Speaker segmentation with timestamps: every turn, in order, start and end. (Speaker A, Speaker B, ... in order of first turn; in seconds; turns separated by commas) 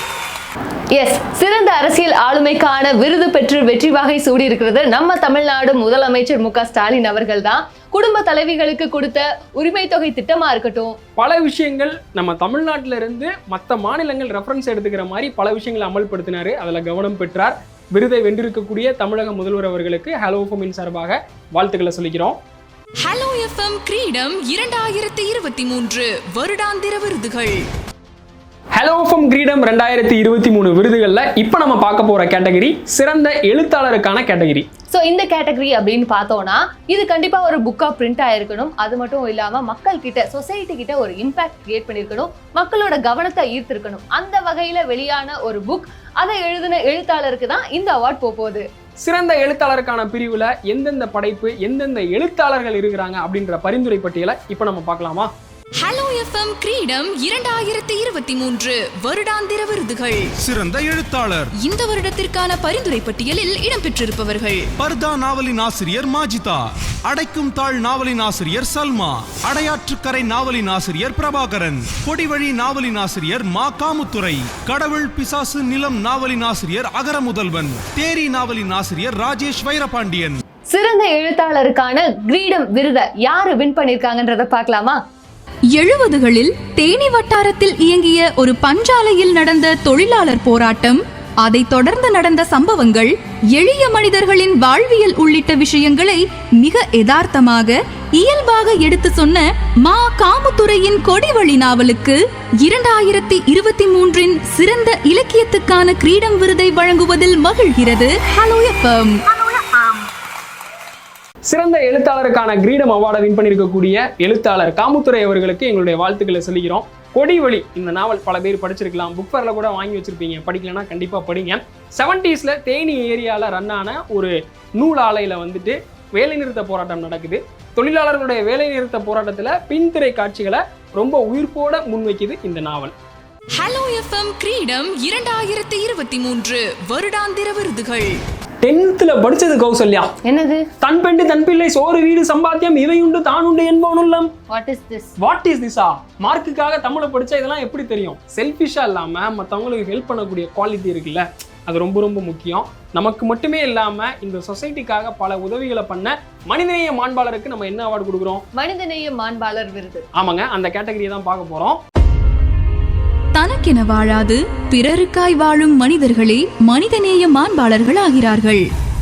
Speaker A: 0.9-11.0, Speaker B: 11.2-22.4, Speaker C: 23.0-27.6, Speaker B: 28.8-34.7, Speaker A: 34.9-48.7, Speaker B: 49.0-55.3, Speaker C: 55.8-60.3, Speaker D: 60.4-61.5, Speaker C: 61.6-64.7, Speaker D: 64.8-80.4, Speaker A: 80.7-85.0, Speaker E: 85.7-109.2, Speaker B: 111.5-132.9, Speaker C: 133.6-138.2, Speaker B: 138.6-140.1, Speaker A: 140.2-140.7, Speaker B: 140.8-144.3, Speaker A: 144.5-145.1, Speaker B: 145.2-158.4, Speaker A: 158.5-160.1, Speaker B: 160.2-161.8, Speaker E: 163.3-168.7